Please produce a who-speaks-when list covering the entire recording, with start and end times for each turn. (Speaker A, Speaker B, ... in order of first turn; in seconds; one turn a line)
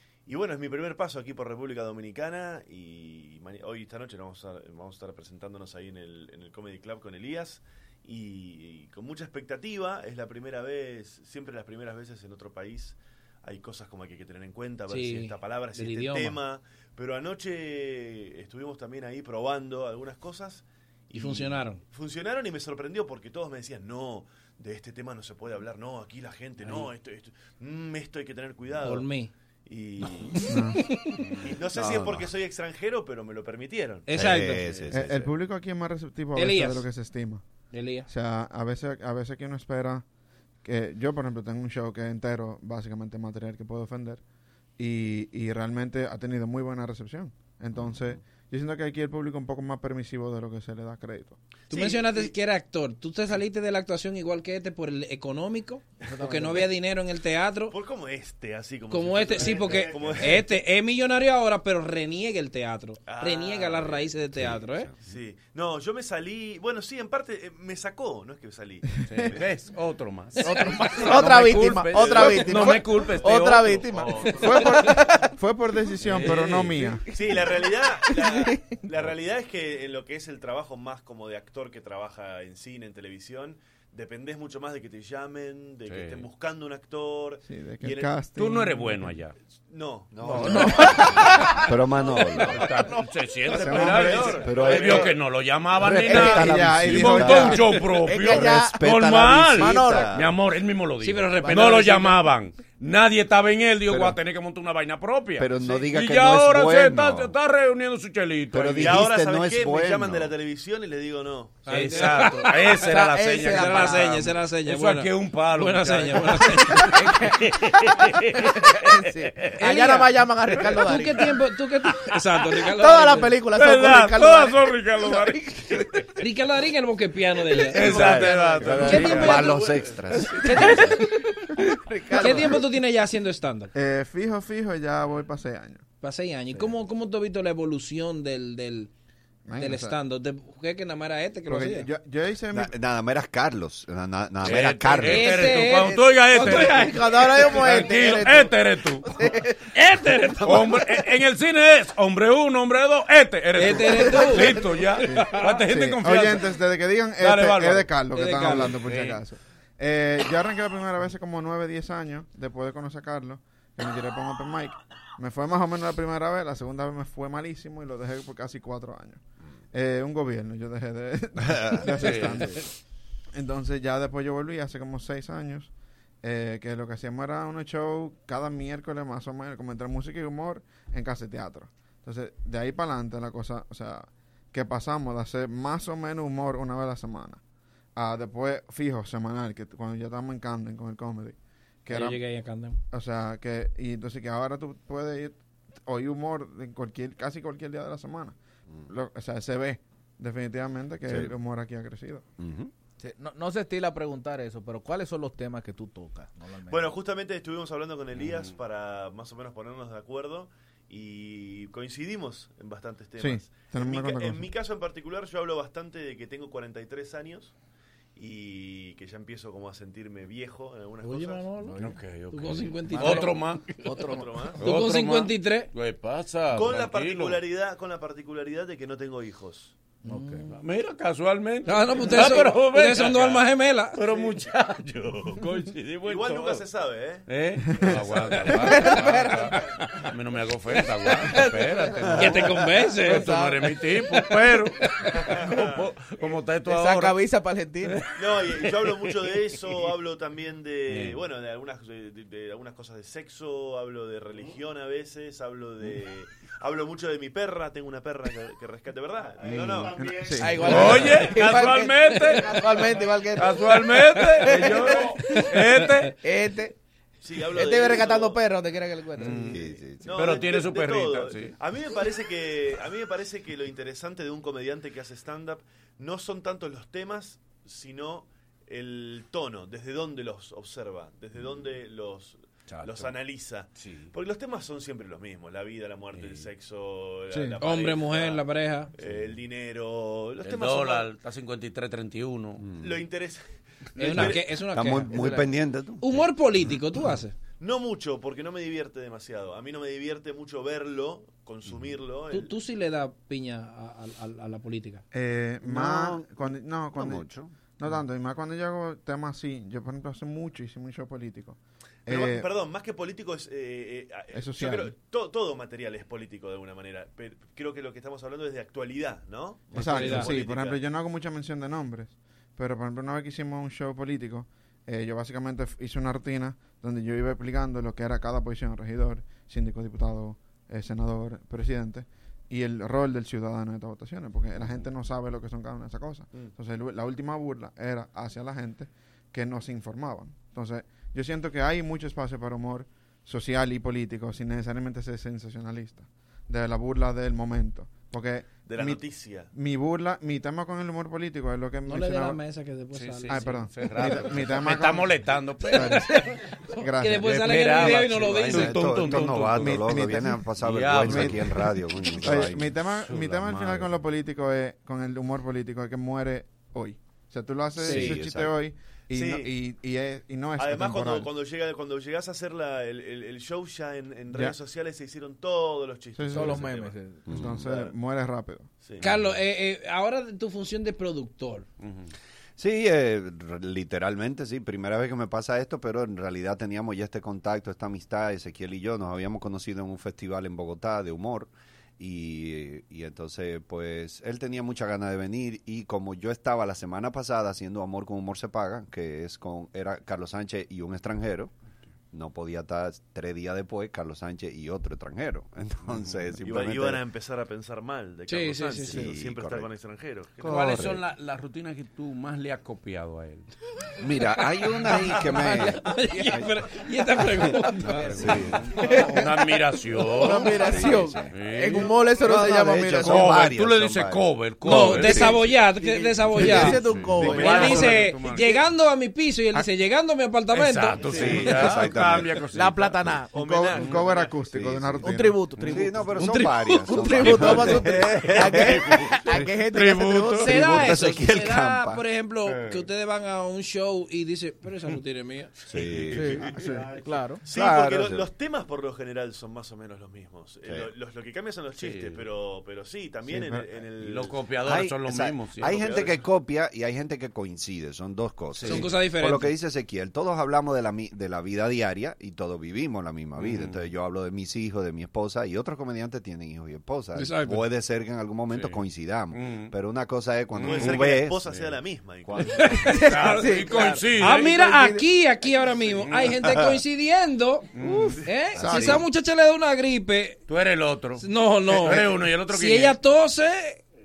Speaker A: 0.3-29.1
Speaker B: 14.9-16.4
Speaker B: 21.1-21.8
Speaker B: 28.8-29.3
Speaker A: 29.6-30.3
Speaker C: 30.5-30.8
Speaker B: 30.8-31.1
Speaker D: 31.2-31.5
Speaker A: 31.4-35.3
Speaker E: 31.8-32.2
Speaker B: 34.1-34.6
Speaker E: 34.1-35.2
Speaker C: 34.9-37.4
Speaker B: 36.3-36.8
Speaker B: 37.7-38.1
Speaker C: 38.1-40.0
Speaker C: 40.6-44.2
Speaker C: 44.8-51.4
Speaker A: 51.7-52.3
Speaker B: 51.7-57.7
Speaker F: 56.0-56.7
Speaker A: 57.7-60.5
Speaker B: 58.9-64.9
Speaker A: 63.0-64.1
Speaker E: 64.3-64.9
Speaker A: 65.0-68.8
Speaker D: 69.0-74.7
Speaker F: 70.4-75.3
Speaker C: 74.4-77.0
Speaker D: 76.0-76.9
Speaker A: 77.1-88.1
Speaker F: 78.0-78.8
Speaker D: 85.9-86.2
Speaker C: 87.5-89.2
Speaker D: 88.3-89.3
Speaker A: 89.7-90.8
Speaker E: 90.1-90.6
Speaker D: 90.2-90.9
Speaker F: 90.4-91.6
Speaker E: 91.6-92.6
Speaker D: 92.0-109.0
Speaker A: 93.5-95.1
Speaker C: 93.5-94.2
Speaker E: 94.4-95.1
Speaker E: 96.1-97.5
Speaker C: 96.1-97.7
Speaker F: 96.1-96.4
Speaker F: 97.9-98.9
Speaker E: 98.2-100.3
Speaker F: 99.5-100.2
Speaker B: 101.0-102.1
Speaker F: 101.4-102.2
Speaker E: 103.9-104.2
Speaker E: 105.4-107.3
Speaker E: 108.5-110.3
Speaker A: 108.8-111.6
Speaker B: 111.6-112.8
Speaker D: 111.7-119.6
Speaker F: 112.8-114.2
Speaker B: 113.4-117.0
Speaker F: 116.8-121.3
Speaker B: 119.6-123.4
Speaker F: 122.7-126.0
Speaker D: 123.5-125.8
Speaker B: 126.2-129.7
Speaker F: 127.6-128.9
Speaker D: 127.7-129.6
Speaker E: 128.0-130.3
Speaker F: 130.2-132.6
Speaker B: 130.5-131.1
Speaker B: 132.1-133.7
Speaker C: 133.7-135.8
Speaker B: 136.0-138.9
Speaker C: 139.4-139.9
Speaker B: 139.6-141.9
Speaker C: 141.5-142.7
Speaker E: 142.5-145.5
Speaker D: 144.4-149.1
Speaker B: 145.0-147.1
Speaker F: 145.9-149.6
Speaker B: 149.7-150.7
Speaker D: 150.4-156.5
Speaker B: 153.6-154.6
Speaker F: 154.1-154.6
Speaker C: 155.1-169.2
Speaker B: 155.1-155.6
Speaker D: 157.2-157.9
Speaker B: 158.1-158.7
Speaker D: 158.8-159.2
Speaker C: 169.7-172.6
Speaker E: 171.4-171.8
Speaker D: 171.9-172.5
Speaker C: 173.3-175.7
Speaker C: 176.2-187.4
Speaker C: 187.9-192.2
Speaker B: 191.9-192.8
Speaker C: 192.9-202.2
Speaker E: 201.1-201.3
Speaker E: 202.4-202.7
Speaker F: 203.0-207.0
Speaker A: 206.7-217.5
Speaker D: 208.1-208.5
Speaker C: 213.2-214.5
Speaker A: 218.1-221.4
Speaker B: 221.0-225.7
Speaker F: 221.4-222.1
Speaker D: 221.8-223.7
Speaker F: 222.9-223.3
Speaker F: 223.8-224.3
Speaker A: 224.0-224.6
Speaker D: 224.6-227.4
Speaker A: 226.5-229.8
Speaker F: 230.0-230.5
Speaker D: 230.5-236.6
Speaker B: 231.6-234.0
Speaker A: 236.0-237.2
Speaker D: 237.3-247.2
Speaker F: 238.5-239.5
Speaker F: 241.2-242.3
Speaker B: 242.2-243.3
Speaker F: 243.1-243.7
Speaker A: 245.3-245.8
Speaker F: 246.7-248.0
Speaker A: 248.2-260.1
Speaker D: 250.9-251.2
Speaker C: 260.0-260.6
Speaker F: 260.4-265.1
Speaker D: 260.6-266.1
Speaker F: 266.2-266.7
Speaker A: 267.2-268.4
Speaker F: 267.5-269.6
Speaker D: 269.2-269.6
Speaker E: 269.5-270.1
Speaker A: 270.0-288.4
Speaker D: 270.1-271.5
Speaker D: 282.7-283.1
Speaker D: 283.8-284.1
Speaker D: 286.1-286.5
Speaker B: 287.6-288.9
Speaker A: 289.0-291.1
Speaker D: 289.0-289.3
Speaker D: 290.4-292.6
Speaker E: 292.6-293.0
Speaker A: 292.8-293.4
Speaker A: 293.9-294.5
Speaker B: 294.0-295.3
Speaker E: 294.1-296.3
Speaker F: 295.1-295.5
Speaker B: 296.0-297.4
Speaker A: 297.6-302.5
Speaker B: 302.3-305.0
Speaker C: 305.1-312.5
Speaker E: 305.6-306.4
Speaker E: 306.9-307.6
Speaker A: 312.1-320.8
Speaker C: 314.3-314.9
Speaker C: 319.7-352.4
Speaker B: 319.8-320.3
Speaker A: 348.6-349.5
Speaker B: 351.9-353.7
Speaker D: 352.9-356.0
Speaker C: 353.3-355.2
Speaker B: 355.6-356.4
Speaker C: 355.8-356.1
Speaker C: 356.8-357.4
Speaker B: 357.0-358.9
Speaker D: 357.2-359.9
Speaker E: 358.4-362.7
Speaker C: 359.6-360.4
Speaker D: 360.6-361.5
Speaker C: 361.0-361.4
Speaker D: 362.2-364.0
Speaker C: 362.2-371.3
Speaker B: 367.8-368.2
Speaker E: 367.8-368.6
Speaker A: 369.1-369.5
Speaker A: 370.6-376.9
Speaker C: 376.1-376.7
Speaker F: 376.3-377.3
Speaker E: 377.3-377.7
Speaker C: 377.3-378.7
Speaker A: 377.6-377.9
Speaker A: 378.8-379.1
Speaker B: 379.0-381.6
Speaker D: 381.8-382.1
Speaker E: 382.6-401.5
Speaker E: 402.1-407.0
Speaker D: 405.9-406.2
Speaker A: 406.4-410.5
Speaker B: 408.3-409.1
Speaker E: 408.9-409.7
Speaker E: 410.4-411.0
Speaker D: 410.4-413.5
Speaker E: 414.0-415.8
Speaker B: 415.4-418.2
Speaker F: 417.3-419.3
Speaker D: 418.0-420.6
Speaker E: 418.1-418.6
Speaker F: 420.1-423.2
Speaker E: 420.2-421.4
Speaker D: 421.3-421.9
Speaker E: 422.2-425.5
Speaker D: 423.0-425.4
Speaker B: 424.6-431.0
Speaker F: 425.7-427.9
Speaker D: 426.4-428.6
Speaker D: 430.5-433.2
Speaker E: 431.1-432.3
Speaker F: 432.5-433.3
Speaker A: 433.3-434.4
Speaker C: 433.4-435.4
Speaker D: 433.8-434.0
Speaker E: 434.5-435.1
Speaker F: 435.0-436.2
Speaker D: 435.6-435.9
Speaker E: 435.6-438.7
Speaker B: 436.2-437.4
Speaker F: 436.9-440.6
Speaker D: 437.3-440.6
Speaker B: 440.4-445.5
Speaker E: 440.4-442.0
Speaker E: 445.7-446.4
Speaker D: 445.7-446.2
Speaker F: 446.1-447.4
Speaker C: 446.5-446.9
Speaker A: 447.4-454.4
Speaker E: 447.5-448.3
Speaker D: 451.8-452.2
Speaker C: 453.3-453.6
Speaker D: 454.0-456.1
Speaker E: 454.6-471.5
Speaker A: 455.6-456.2
Speaker D: 458.5-458.9
Speaker B: 458.6-459.5
Speaker D: 463.4-463.9
Speaker B: 467.1-467.6
Speaker D: 468.5-468.8
Speaker D: 469.3-469.7
Speaker D: 470.5-471.8
Speaker A: 470.6-472.7
Speaker E: 472.3-472.6
Speaker B: 472.6-473.4
Speaker F: 472.8-474.2
Speaker D: 472.8-474.7
Speaker B: 474.1-480.4
Speaker D: 475.9-476.4
Speaker D: 477.7-478.1
Speaker E: 478.6-479.0
Speaker C: 478.6-479.0
Speaker D: 480.5-483.0
Speaker B: 481.2-483.8